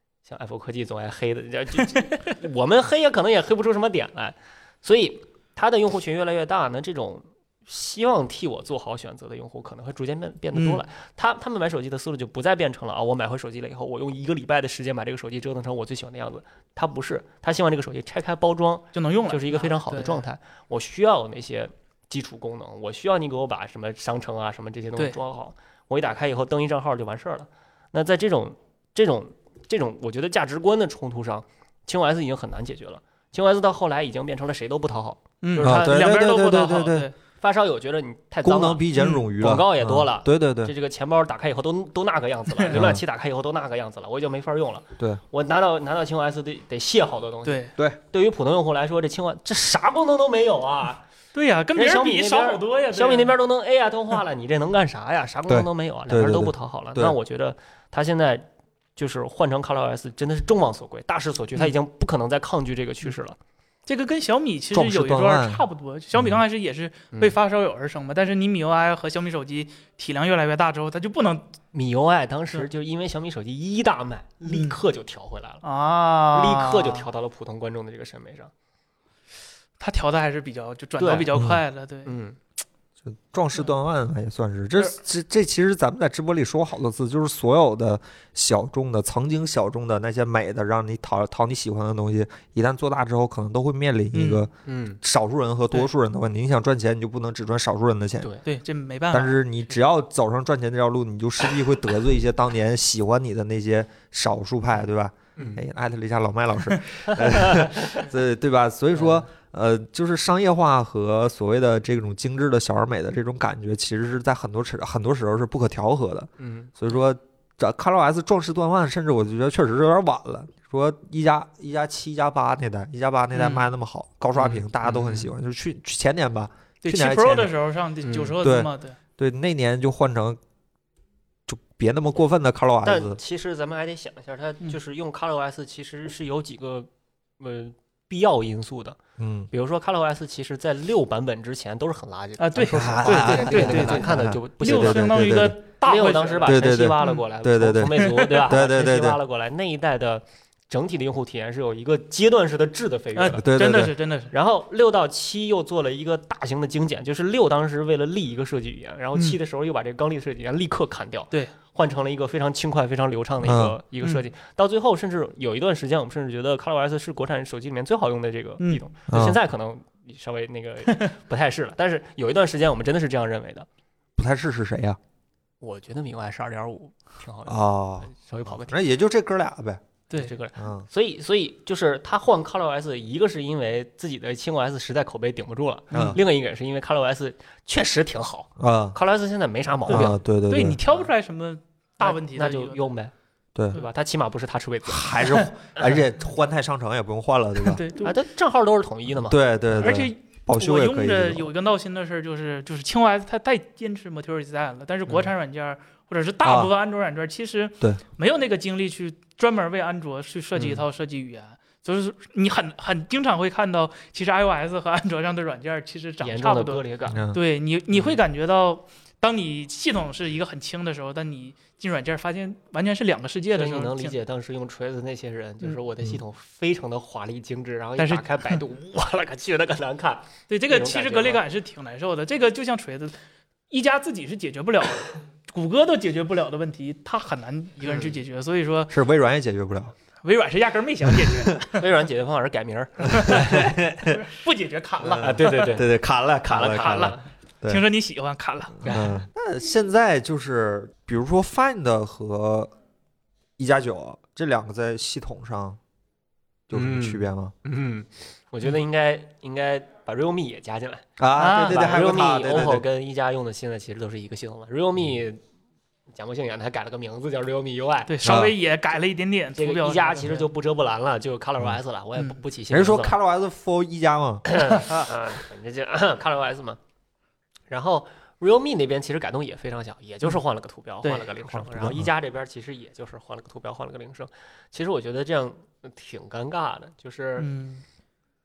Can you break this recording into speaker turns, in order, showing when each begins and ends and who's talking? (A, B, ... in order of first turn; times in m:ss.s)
0:00.2-0:36.0 A
0:10.5-0:10.8 B
0:18.9-0:20.2 B
0:35.4-0:37.1 B
0:35.6-0:37.1 C
0:37.4-0:51.0 A
0:38.4-0:40.7 C
0:39.0-0:39.3 B
0:42.7-0:43.0 C
0:47.4-0:47.8 B
0:51.3-0:53.4 B
0:51.8-1:03.4 A
0:55.5-0:57.2 C
1:03.9-1:11.5 B
1:04.7-1:06.4 C
1:11.7-1:15.6 A
1:14.4-1:14.8 B
1:15.6-1:17.1 B
1:16.3-1:18.5 A
1:19.8-1:22.2 B
1:21.0-1:21.3 A
1:21.3-1:21.6 C
1:22.0-1:22.4 A
1:23.0-1:38.3 C
1:34.1-1:34.4 B
1:34.7-1:35.0 A
1:38.4-1:39.5 B
1:39.1-2:07.6 C
1:45.4-1:45.6 A
1:47.1-1:48.0 A
1:49.0-1:49.3 A
1:56.4-1:56.7 A
2:03.3-2:03.7 B
2:04.4-2:05.3 A
2:06.8-2:09.0 B
2:08.0-2:08.4 A
2:08.4-2:10.4 C
2:11.5-2:13.2 C
2:12.8-2:19.0 A
2:19.2-2:19.5 C
2:19.5-2:33.5 A
2:22.4-2:27.3 B
2:22.6-2:25.6 C
2:26.4-2:29.2 C
2:28.0-2:28.5 B
2:33.2-2:34.3 B
2:33.4-2:34.0 C
2:34.3-2:53.7 A
2:43.4-2:43.8 C
2:49.1-2:49.4 C
2:54.2-2:55.0 C
2:55.6-2:58.8 A
2:57.5-2:59.8 C
3:00.1-3:10.2 A
3:00.6-3:00.9 C
3:05.9-3:06.2 C
3:08.6-3:09.0 C
3:09.9-3:10.8 C
3:09.9-3:12.9 B
3:12.0-3:13.1 A
3:13.7-3:15.2 A
3:14.9-3:17.8 C
3:17.6-3:18.2 B
3:18.0-3:19.9 A
3:19.3-3:21.5 C
3:19.8-3:44.2 B
3:26.4-3:26.7 C
3:30.6-3:30.8 A
3:36.2-3:37.2 A
3:37.1-3:37.4 C
3:43.5-3:51.4 A
3:48.0-3:48.6 B
3:50.5-3:53.2 B
3:53.7-3:59.0 B
3:57.8-3:58.2 A
3:58.9-4:00.0 C
4:00.2-4:01.9 B
4:01.1-4:01.4 C
4:01.7-4:03.6 A
4:03.2-4:04.2 C
4:03.2-4:05.7 B
4:05.0-4:07.8 C
4:05.2-4:05.9 A
4:06.5-4:07.3 A
4:06.7-4:07.1 B
4:07.6-4:08.9 B
4:08.8-4:12.7 C
4:08.8-4:09.2 A
4:13.6-4:15.8 C
4:16.7-4:17.5 C
4:16.7-4:25.4 A
4:21.2-4:22.8 C
4:21.4-4:22.0 B
4:26.1-4:28.2 A
4:28.1-4:30.5 B
4:28.2-4:28.6 C
4:29.6-4:33.2 A
4:32.7-4:34.5 C
4:34.5-4:36.8 A
4:37.7-4:47.5 A
4:41.0-4:41.4 B
4:41.6-4:42.1 C
4:47.4-4:47.8 B